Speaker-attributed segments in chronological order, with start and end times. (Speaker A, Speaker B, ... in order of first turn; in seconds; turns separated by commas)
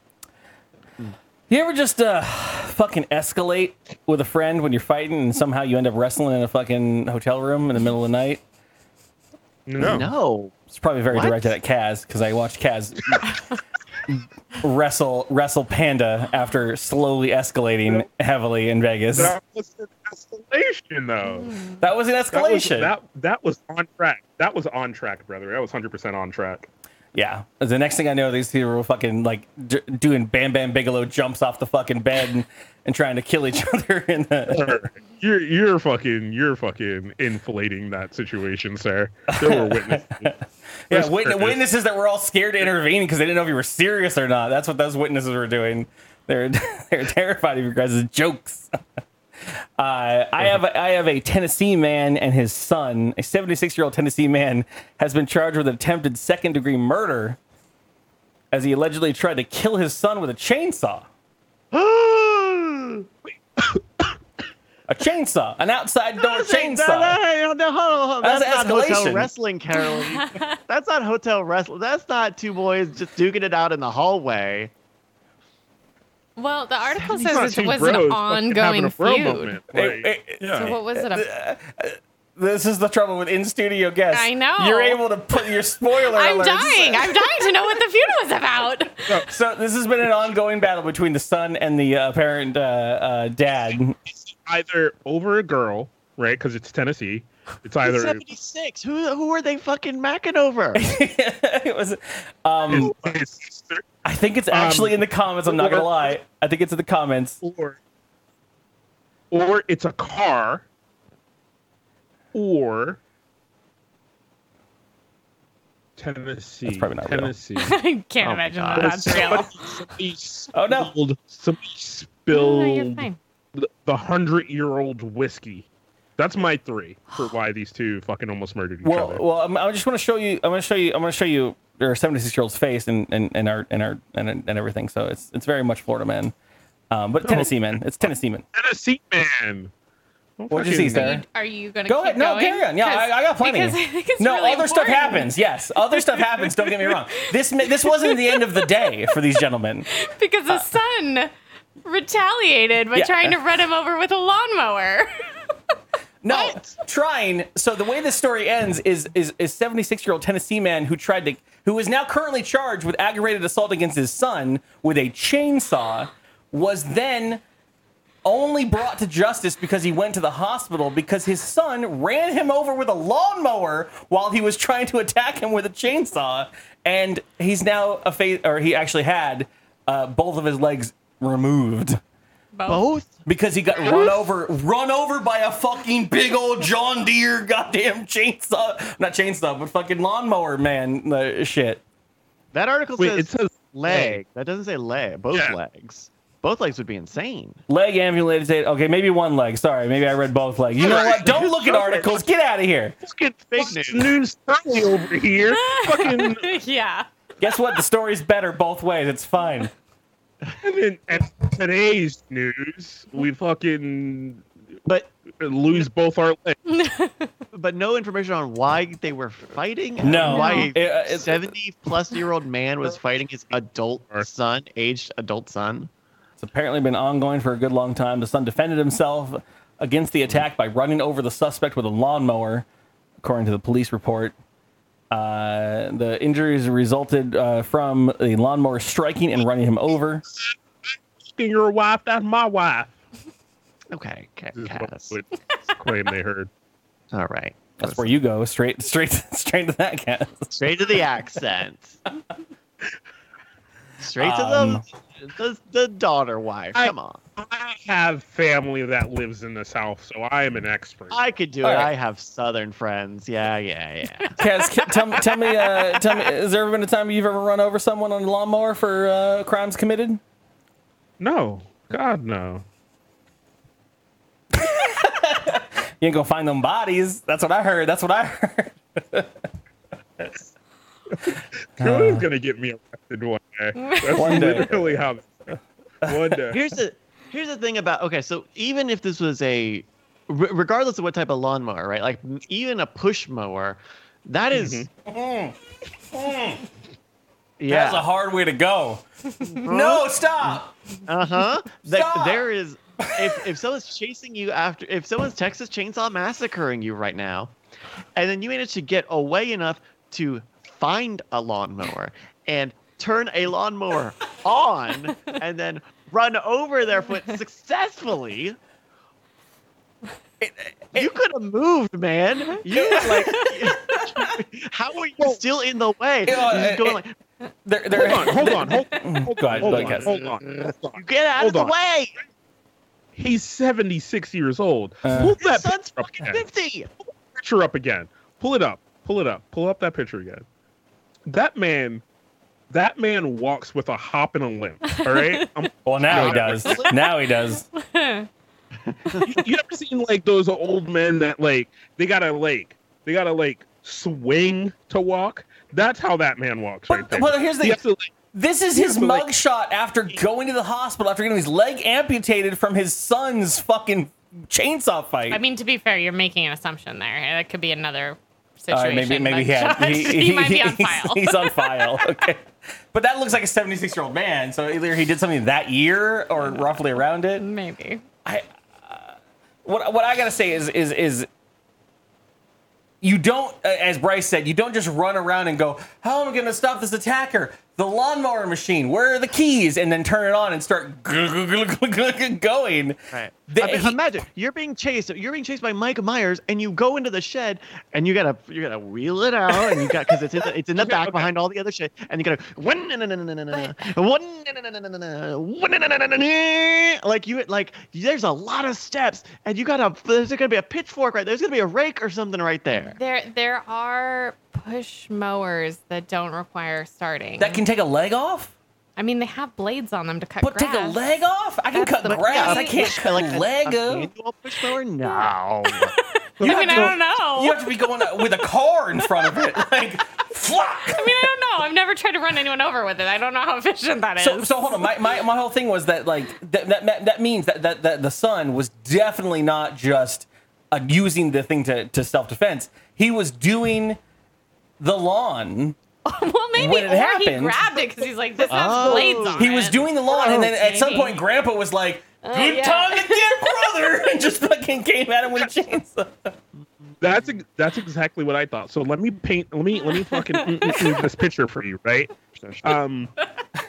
Speaker A: 1.5-8.4, Speaker B: 9.7-10.1, Speaker C: 9.8-10.6, Speaker A: 10.7-13.4, Speaker C: 11.1-11.6, Speaker A: 14.1-19.4, Speaker B: 19.1-21.5, Speaker D: 21.2-21.8, Speaker A: 21.8-22.9, Speaker B: 22.3-26.7, Speaker A: 27.1-34.8, Speaker B: 34.5-40.4, Speaker A: 39.3-40.3, Speaker A: 40.9-48.8, Speaker B: 40.9-41.6, Speaker A: 49.8-57.4, Speaker A: 58.5-61.1, Speaker C: 61.7-63.1, Speaker B: 63.6-64.0, Speaker A: 64.9-67.2, Speaker C: 66.2-74.7, Speaker A: 68.2-69.3, Speaker D: 70.1-70.5, Speaker D: 76.4-79.6, Speaker B: 77.0-80.7, Speaker A: 79.7-87.8, Speaker D: 80.5-81.3, Speaker D: 84.1-85.5, Speaker D: 86.1-89.2, Speaker A: 89.3-94.0, Speaker B: 94.1-98.3, Speaker C: 97.8-100.8, Speaker A: 100.7-102.9, Speaker B: 102.7-103.8, Speaker A: 104.0-107.4, Speaker B: 104.5-106.2, Speaker B: 107.4-107.8, Speaker B: 109.3-110.7, Speaker B: 112.3-113.0, Speaker B: 116.0-117.8, Speaker A: 116.7-117.3, Speaker D: 117.6-119.5, Speaker C: 118.2-119.5, Speaker B: 118.8-125.7, Speaker A: 120.5-120.9, Speaker D: 122.3-123.2, Speaker B: 126.2-129.2, Speaker A: 128.8-136.3, Speaker A: 136.9-138.4, Speaker B: 137.2-139.7, Speaker B: 140.4-141.1, Speaker A: 140.5-141.2, Speaker D: 140.9-145.3, Speaker A: 141.9-149.9, Speaker D: 147.8-148.6, Speaker D: 150.0-151.3, Speaker D: 151.8-155.1, Speaker A: 152.9-153.4, Speaker A: 156.2-167.4, Speaker A: 168.2-182.0, Speaker D: 182.5-182.8, Speaker C: 182.7-183.2, Speaker A: 183.3-191.8, Speaker C: 192.5-197.6, Speaker B: 193.0-194.2, Speaker B: 195.3-195.6, Speaker A: 197.7-202.9, Speaker B: 200.8-202.2, Speaker C: 203.0-204.1, Speaker B: 203.6-206.5, Speaker D: 205.5-207.1, Speaker A: 207.4-209.7, Speaker B: 210.6-214.4, Speaker B: 215.4-216.6, Speaker D: 216.7-217.3, Speaker C: 217.5-225.9, Speaker A: 220.0-221.5, Speaker D: 220.3-220.7, Speaker A: 226.4-232.7, Speaker A: 233.2-234.3, Speaker A: 235.1-240.2, Speaker B: 241.3-243.0, Speaker C: 243.9-245.2, Speaker B: 244.5-246.5, Speaker C: 247.1-248.1, Speaker A: 247.8-250.6, Speaker C: 250.5-252.0, Speaker C: 254.0-257.2, Speaker A: 254.2-254.8, Speaker B: 256.7-261.2, Speaker C: 261.1-264.4, Speaker A: 261.6-261.9, Speaker D: 264.2-266.2, Speaker A: 264.4-270.2, Speaker B: 271.2-272.6, Speaker A: 274.5-279.3, Speaker B: 281.2-286.6, Speaker A: 281.8-282.3, Speaker D: 283.8-284.1, Speaker A: 284.1-285.0, Speaker A: 286.0-286.4, Speaker C: 286.5-294.9, Speaker B: 294.5-294.9, Speaker A: 295.1-295.6, Speaker A: 296.1-296.6, Speaker C: 297.6-298.1, Speaker A: 297.7-299.0, Speaker C: 299.6-307.5, Speaker A: 299.6-300.7, Speaker A: 301.9-302.5, Speaker A: 303.0-303.4, Speaker C: 308.2-318.6, Speaker A: 320.4-321.1, Speaker C: 320.9-327.1, Speaker A: 322.7-323.5, Speaker A: 326.2-327.0, Speaker A: 327.6-330.2, Speaker B: 327.9-331.7, Speaker C: 329.6-330.2, Speaker C: 330.9-332.1, Speaker B: 333.1-336.4, Speaker A: 335.0-335.4, Speaker C: 335.4-336.9, Speaker B: 337.4-340.4, Speaker B: 341.3-342.0, Speaker B: 342.7-346.9, Speaker D: 344.9-345.5, Speaker A: 345.9-347.6, Speaker C: 346.1-346.9, Speaker D: 347.4-348.3, Speaker C: 348.9-349.3, Speaker B: 349.2-358.1, Speaker A: 356.9-357.8, Speaker A: 358.3-365.4, Speaker B: 358.8-359.3, Speaker D: 365.3-372.1, Speaker A: 368.7-377.4, Speaker D: 377.4-378.0, Speaker A: 378.2-381.3, Speaker A: 383.0-393.0, Speaker C: 393.1-413.0, Speaker A: 393.6-394.0, Speaker B: 400.8-401.2, Speaker D: 412.8-417.6, Speaker A: 417.4-418.5, Speaker D: 419.0-421.0, Speaker A: 420.4-424.1, Speaker D: 421.7-422.9, Speaker C: 422.0-425.9, Speaker D: 425.0-425.3, Speaker D: 426.0-427.6, Speaker B: 426.4-426.9, Speaker A: 426.4-431.3, Speaker D: 430.9-434.9, Speaker A: 434.2-444.0, Speaker A: 444.8-445.8, Speaker D: 446.1-451.2, Speaker A: 446.6-447.8, Speaker C: 448.5-449.5, Speaker A: 448.5-456.3, Speaker D: 452.2-453.4, Speaker B: 457.0-462.1, Speaker D: 459.9-461.0, Speaker C: 462.4-462.7, Speaker B: 462.6-463.1